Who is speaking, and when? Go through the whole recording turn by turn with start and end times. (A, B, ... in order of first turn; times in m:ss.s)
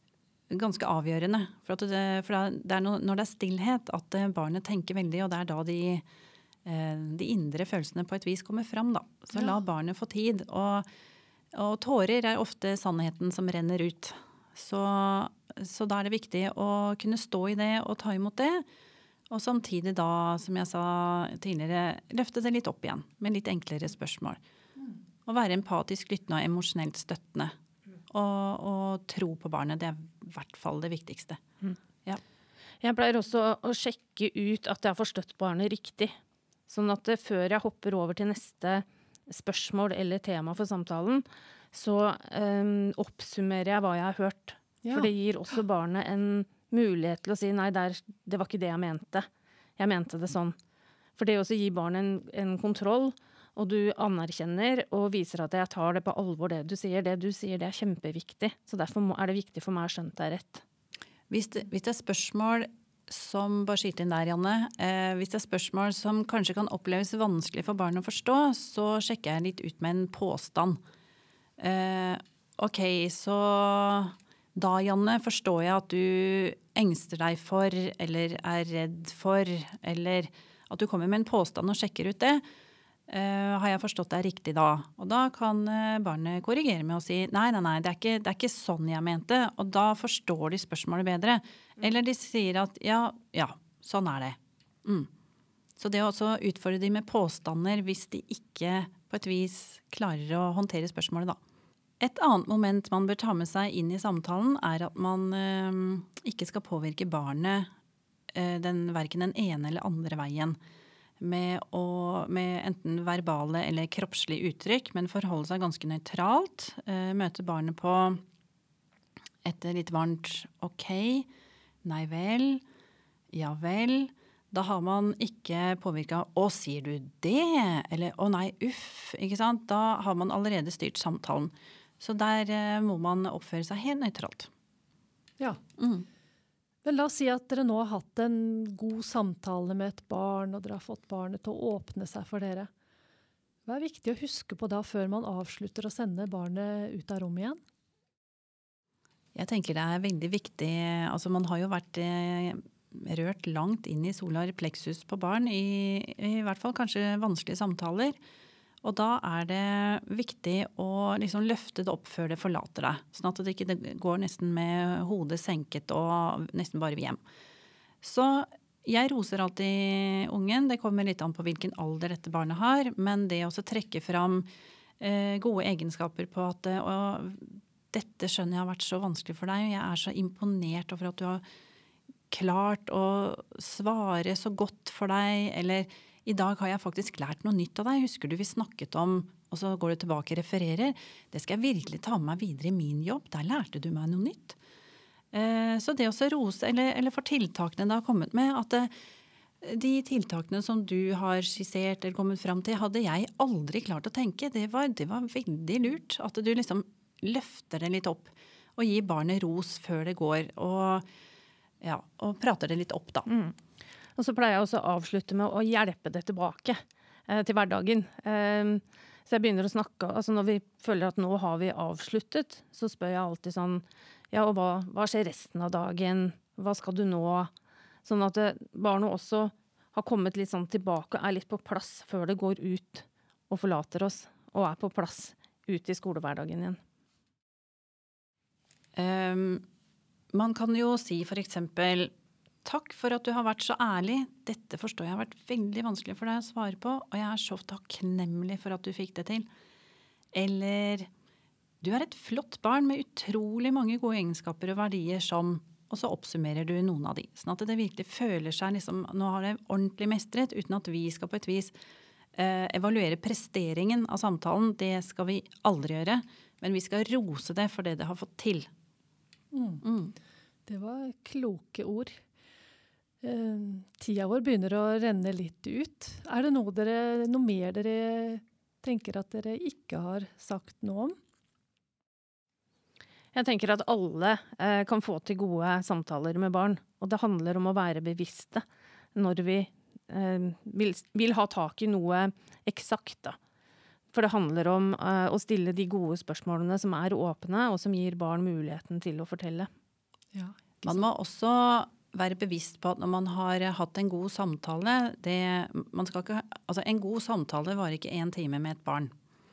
0:00.5-0:06.0 A
0:06.6-0:10.9 A
0:11.5-0:18.6 A
0:19.3-0:24.4 A
0:25.3-0:27.5 A
0:28.1-0:31.4 A
0:32.8-0:36.1 B
0:36.7-0:50.6 B
0:44.8-0:45.1 C
0:51.2-1:00.6 B
1:01.3-1:10.8 A
1:11.6-1:22.4 A
1:23.1-1:35.1 A
1:35.8-1:41.4 A
1:42.0-1:47.7 A
1:48.3-1:50.6 A
1:51.2-1:58.2 A
1:59.4-2:01.3 A
2:01.8-2:02.6 A
2:03.3-2:14.5 A
2:15.8-2:16.1 A
2:16.8-2:22.7 C
2:23.7-2:27.6 C
2:29.3-2:38.2 A
2:38.8-2:47.2 A
2:48.0-2:54.5 A
2:55.0-3:01.4 A
3:02.3-3:14.6 A
3:15.3-3:18.9 A
3:19.6-3:31.1 A
3:31.8-3:33.3 A
3:33.3-3:33.6 B
3:34.2-3:47.5 B
3:48.0-3:56.8 B
3:59.0-3:59.6 A
4:00.3-4:02.1 A
4:02.6-4:09.5 A
4:10.3-4:11.1 A
4:11.8-4:21.7 A
4:22.4-4:28.7 A
4:29.5-4:29.8 C
4:29.8-4:30.1 A
4:30.7-4:32.2 C
4:33.2-4:41.2 C
4:43.3-4:53.4 B
4:54.1-4:59.7 B
5:00.8-5:09.1 A